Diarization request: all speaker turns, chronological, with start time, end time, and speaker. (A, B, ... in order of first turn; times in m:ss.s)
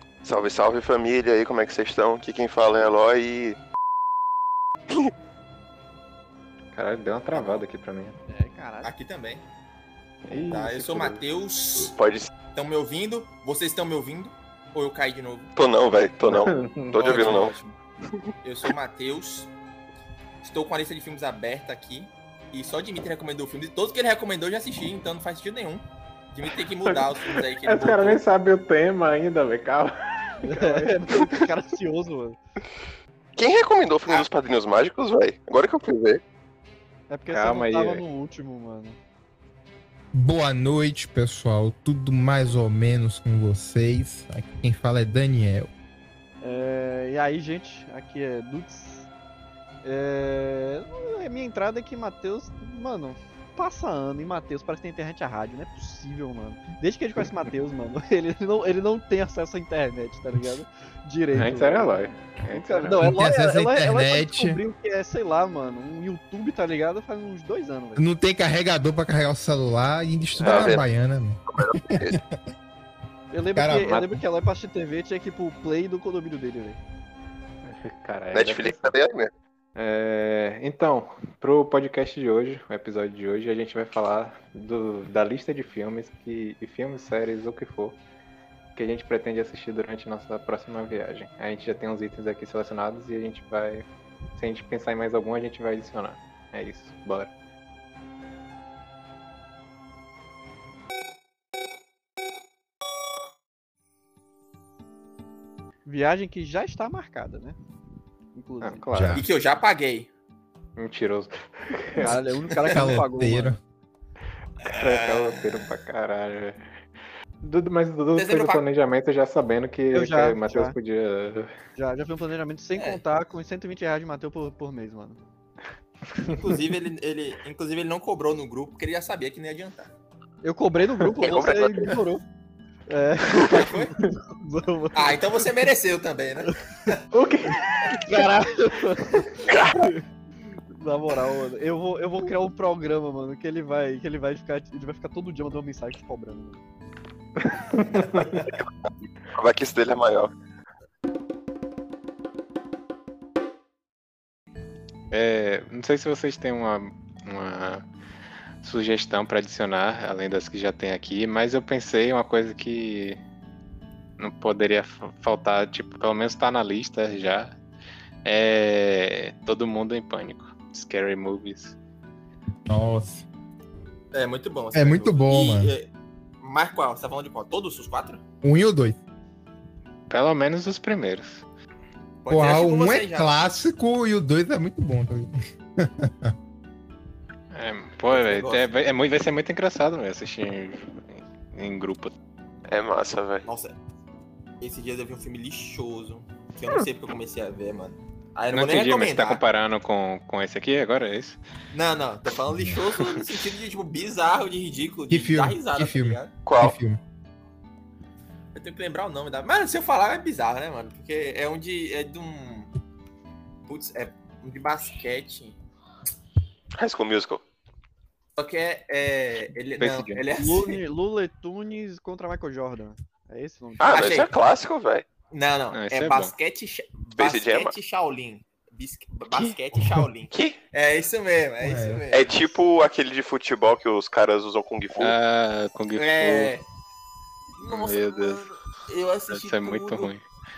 0:00.2-0:03.6 A
0:06.7-0:08.2 B
0:07.3-0:07.6 C
0:08.3-0:08.9 D
0:08.8-0:09.4 C
0:10.2-0:11.2 B
0:10.4-0:12.0 C
0:11.8-0:12.3 A
0:12.5-0:15.5 C
0:15.6-0:17.6 A
0:16.2-0:17.2 B
0:17.0-0:17.8 C
0:18.4-0:19.5 C
0:20.4-0:28.2 C
0:26.8-0:31.5 B
0:30.4-0:32.4 D
0:33.4-0:36.2 A
0:37.1-0:39.0 D
0:37.3-0:38.0 B
0:40.1-0:45.7 E
0:46.4-0:49.1 D
0:49.8-1:08.0 D
1:01.3-1:03.2 B
1:03.0-1:04.6 E
1:08.0-1:12.4 E
1:10.4-1:10.8 B
1:10.4-1:10.8 A
1:11.5-1:12.2 A
1:13.3-1:16.8 D
1:13.5-1:14.1 E
1:17.6-1:18.9 B
1:18.3-1:19.3 A
1:19.7-1:28.0 B
1:28.7-1:37.3 B
1:45.8-1:47.6 D
1:48.3-1:49.0 D
1:48.6-1:49.2 B
1:48.9-1:49.2 E
1:49.1-1:50.1 C
1:50.8-1:52.3 B
1:52.0-1:53.6 D
1:52.5-1:53.0 C
1:52.6-1:53.6 E
1:54.6-1:55.7 C
1:54.6-1:56.6 B
1:57.4-2:01.5 B
1:58.1-1:58.6 C
1:59.9-2:00.8 D
2:01.8-2:05.2 D
2:02.7-2:03.0 C
2:06.3-2:09.9 C
2:10.4-2:12.2 D
2:11.2-2:11.9 A
2:12.9-2:15.5 D
2:13.5-2:14.0 C
2:14.9-2:17.0 C
2:17.1-2:18.3 B
2:17.5-2:20.0 D
2:19.4-2:19.9 A
2:20.8-2:26.6 D
2:27.7-2:28.4 B
2:28.2-2:28.4 C
2:29.3-2:30.3 A
2:35.1-2:37.9 B
2:38.6-2:43.2 B
2:44.2-2:47.5 B
2:48.2-2:51.8 B
2:52.7-2:53.2 E
2:54.1-2:55.9 C
2:54.7-2:55.7 E
2:56.4-2:58.2 C
2:58.4-2:59.0 E
3:00.1-3:01.4 B
3:02.2-3:03.4 C
3:02.3-3:06.3 E
3:07.5-3:12.1 B
3:08.1-3:08.8 C
3:12.7-3:13.4 A
3:13.4-3:13.8 C
3:14.6-3:19.4 C
3:18.5-3:21.4 B
3:21.7-3:26.3 C
3:25.1-3:27.0 E
3:26.4-3:26.7 A
3:28.5-3:32.7 C
3:33.6-3:35.6 C
3:36.7-3:37.4 A
3:38.4-3:40.8 C
3:39.8-3:40.2 B
3:40.4-3:44.2 D
3:43.8-3:45.0 A
3:43.8-3:44.3 C
3:45.3-3:52.6 C
3:45.7-3:46.3 B
3:47.2-3:47.7 A
3:50.3-3:50.6 A
3:51.6-3:52.0 E
3:52.1-3:55.2 A
3:55.0-3:56.6 B
3:55.9-3:56.6 C
3:57.6-4:00.1 C
3:57.6-3:58.5 B
3:59.3-4:00.2 B